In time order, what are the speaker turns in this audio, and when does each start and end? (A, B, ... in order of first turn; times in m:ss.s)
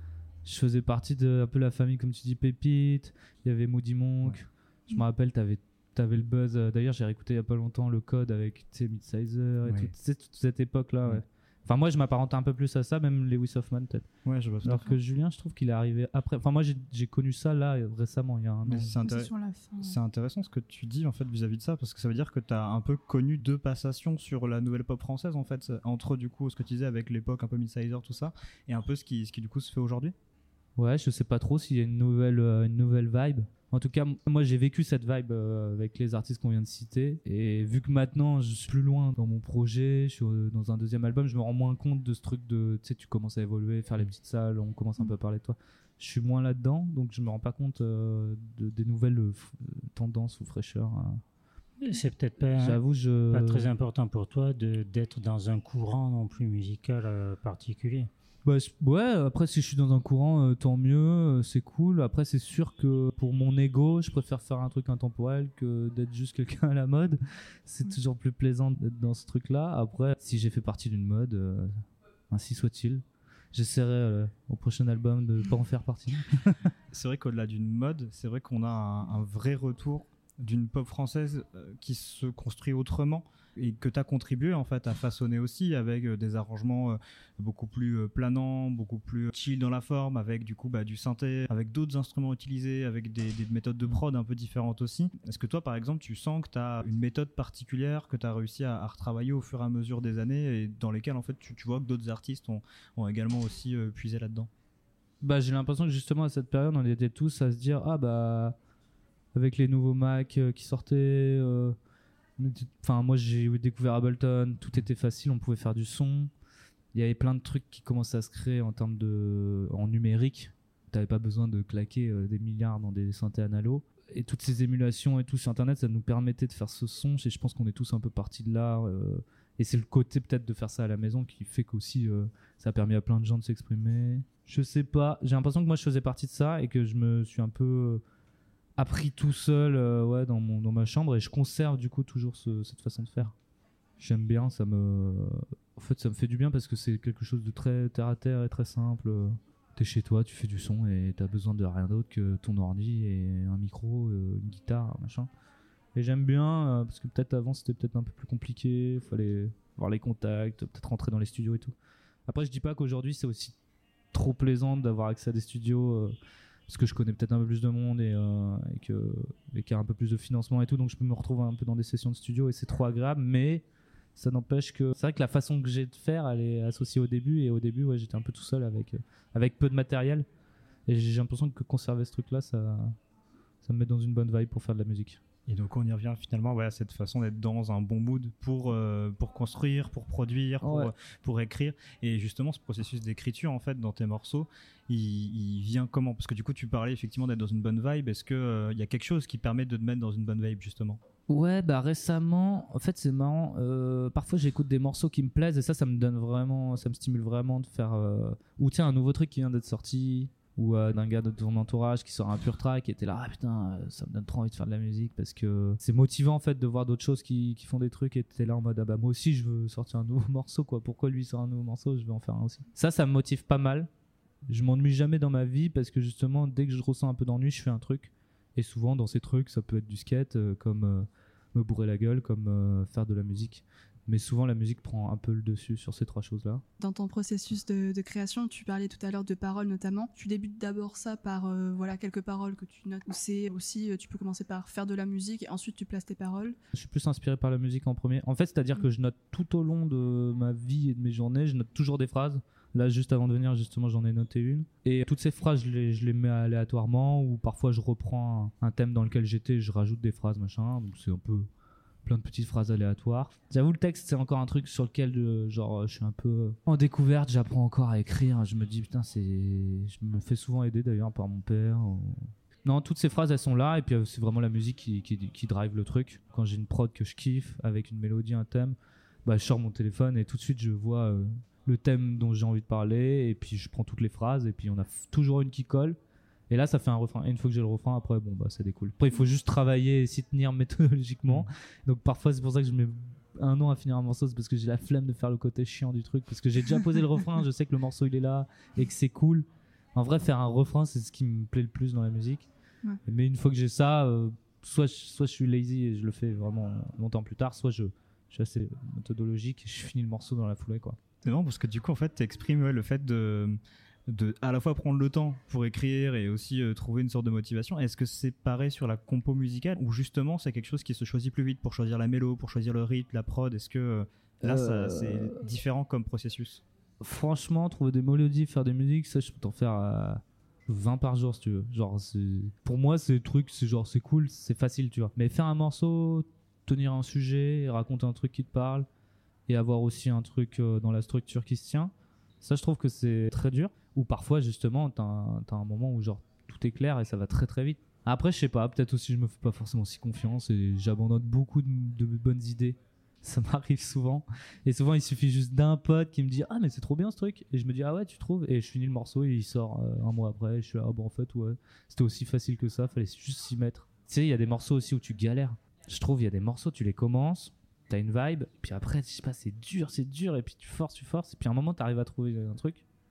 0:00.4-0:14.1 A
0:09.6-0:09.9 B
0:14.3-0:14.9 B
0:14.6-0:19.0 A
0:18.7-0:30.2 B
0:19.0-0:19.8 C
0:30.8-0:51.2 A
0:51.8-0:58.1 D
0:52.6-0:53.7 A
0:58.4-1:11.7 A
1:12.3-1:16.4 A
1:16.9-1:44.5 B
1:45.2-1:48.6 A
1:49.3-1:51.8 A
1:52.4-1:56.3 A
1:56.9-2:18.0 A
2:18.8-2:23.3 A
2:24.0-2:35.3 A
2:36.0-2:41.7 A
2:42.3-2:43.6 A
2:44.1-2:46.2 A
2:46.7-2:53.6 A
2:54.2-3:00.3 A
3:00.9-3:02.9 A
3:03.6-3:05.2 A
3:05.5-3:21.0 B
3:10.6-3:10.9 A
3:21.3-3:43.9 A
3:44.5-3:56.6 A
3:56.8-4:06.6 C
4:06.7-4:21.5 A
4:22.1-4:46.0 A
4:46.5-5:02.5 A
5:03.1-5:11.0 A
5:11.2-5:13.6 B
5:14.1-5:26.6 B
5:24.4-5:25.4 A
5:27.0-5:38.9 A
5:39.5-6:12.8 A